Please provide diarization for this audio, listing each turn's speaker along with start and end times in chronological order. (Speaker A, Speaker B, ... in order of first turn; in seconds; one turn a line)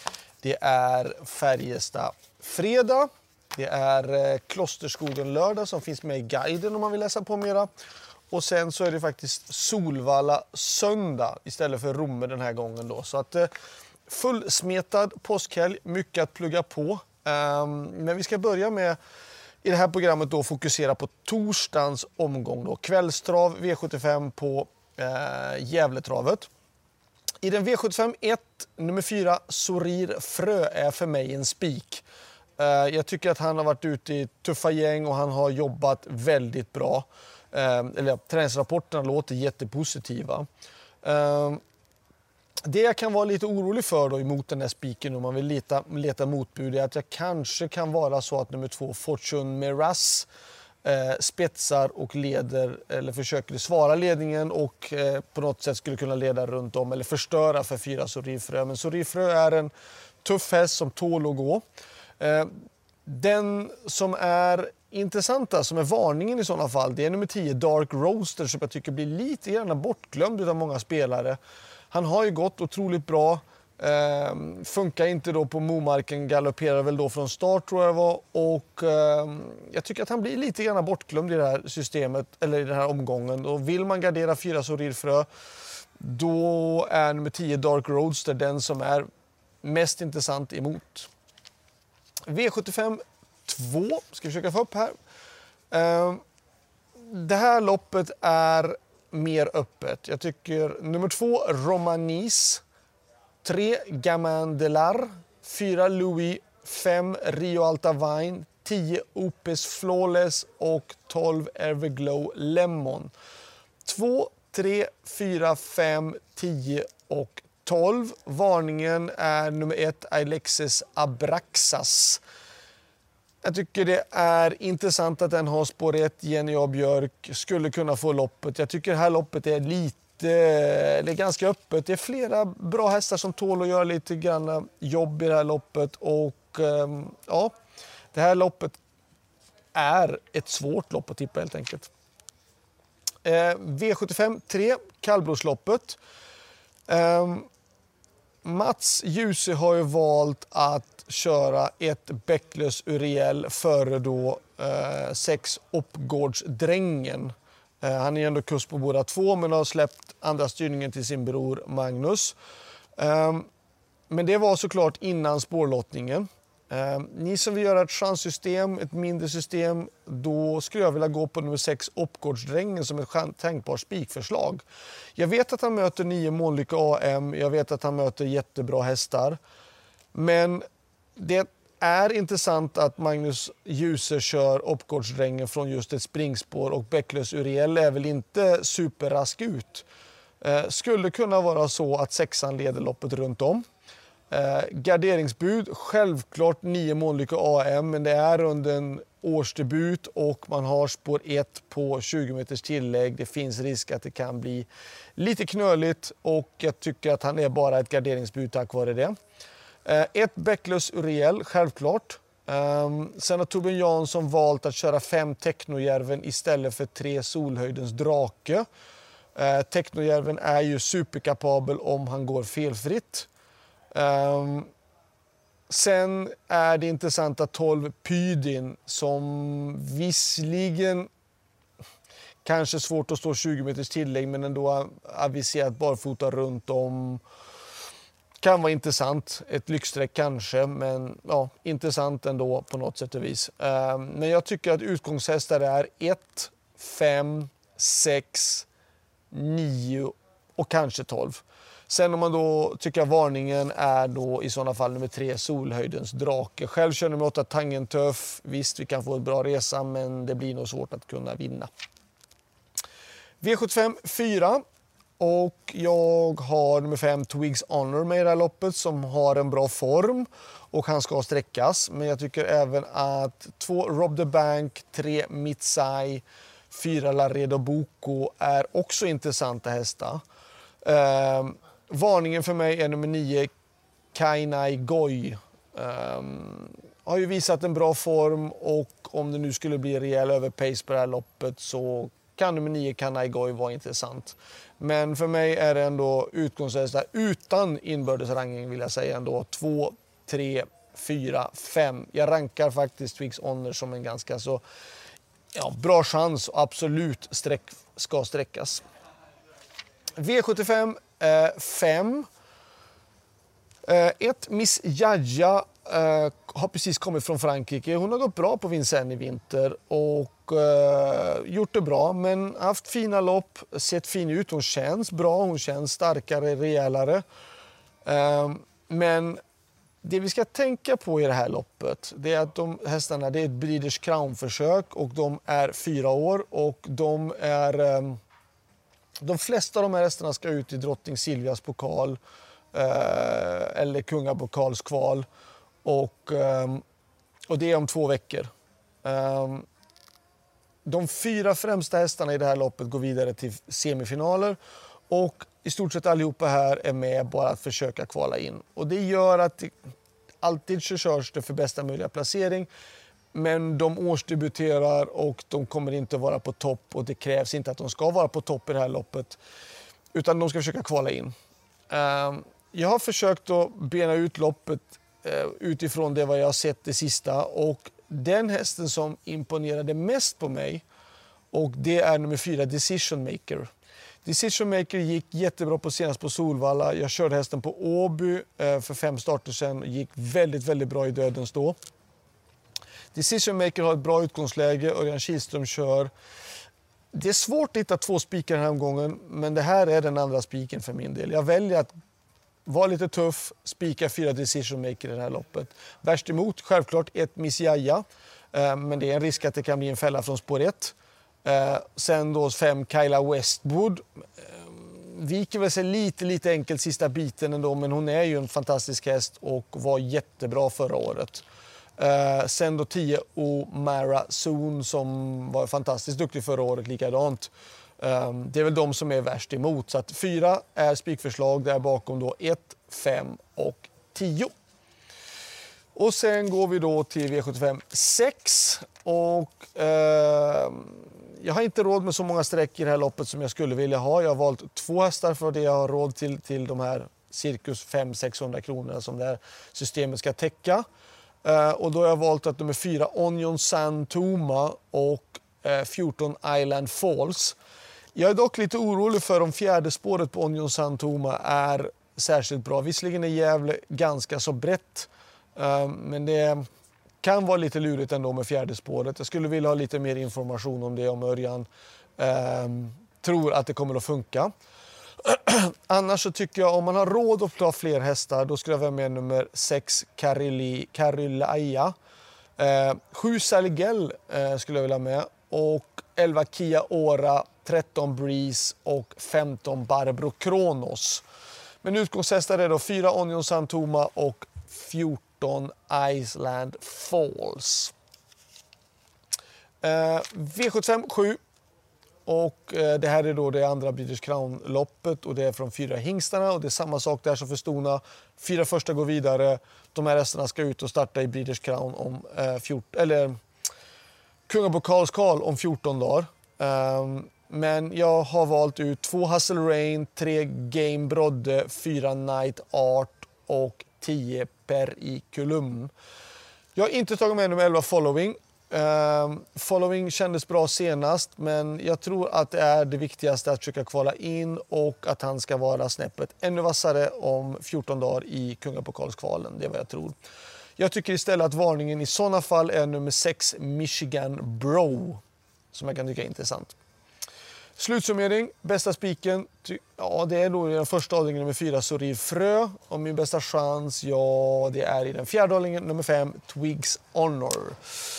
Speaker A: 0.4-7.7
Speaker A: 8.3-13.5
Speaker A: 14.1-19.0
Speaker A: 19.6-26.5
Speaker A: 27.4-32.0
Speaker A: 32.6-40.5
Speaker A: 41.0-41.6
Speaker A: 42.6-50.3
Speaker A: 50.8-59.7
Speaker A: 60.2-61.6
Speaker A: 62.2-62.5
Speaker A: 63.0-71.4
Speaker A: 71.9-85.3
Speaker A: 86.0-89.1
Speaker A: 89.6-91.1
Speaker A: 92.3-95.0
Speaker A: 95.7-96.2
Speaker A: 97.0-102.6
Speaker A: 103.4-113.1
Speaker A: 113.8-122.2
Speaker A: 123.4-137.5
Speaker A: 138.1-138.8
Speaker A: 139.7-141.9
Speaker A: 143.2-146.0
Speaker A: 146.9-147.5
Speaker A: 148.4-162.3
Speaker A: 163.0-163.5
Speaker A: 164.1-174.6
Speaker A: 175.2-179.4
Speaker A: 180.1-180.6
Speaker A: 181.2-189.8
Speaker A: 190.4-193.6
Speaker A: 194.3-209.1
Speaker A: 209.8-218.7
Speaker A: 219.3-223.3
Speaker A: 223.9-224.7
Speaker A: 225.7-231.1
Speaker A: 232.4-237.2
Speaker A: 238.4-248.7
Speaker A: 249.3-261.7
Speaker A: 263.4-264.6
Speaker A: 265.2-280.2
Speaker A: 280.8-283.5
Speaker A: 284.1-304.6
Speaker A: 305.5-308.8
Speaker A: 310.2-312.3
Speaker A: 313.8-327.2
Speaker A: 328.0-329.4
Speaker A: 330.0-338.2
Speaker A: 339.2-342.2
Speaker A: 342.7-345.2
Speaker A: 345.8-346.8
Speaker A: 347.5-348.5
Speaker A: 349.0-349.6
Speaker A: 350.8-354.6
Speaker A: 355.1-359.7
Speaker A: 360.4-362.7
Speaker A: 363.3-369.4
Speaker A: 370.1-371.3
Speaker A: 371.9-380.8
Speaker A: 381.5-383.7
Speaker A: 384.2-391.8
Speaker A: 393.1-396.1
Speaker A: 397.1-401.9
Speaker A: 402.6-421.4
Speaker A: 422.0-434.5
Speaker A: 435.9-450.8
Speaker A: 451.4-457.6
Speaker A: 458.1-466.6
Speaker A: 467.2-471.7
Speaker A: 472.2-474.5
Speaker A: 475.2-481.9
Speaker A: 482.6-491.2
Speaker A: 491.8-497.9
Speaker A: 499.8-501.4
Speaker A: 502.2-513.4
Speaker A: 514.5-525.9
Speaker A: 526.8-540.1
Speaker A: 540.8-545.2
Speaker A: 545.7-546.7
Speaker A: 547.8-557.8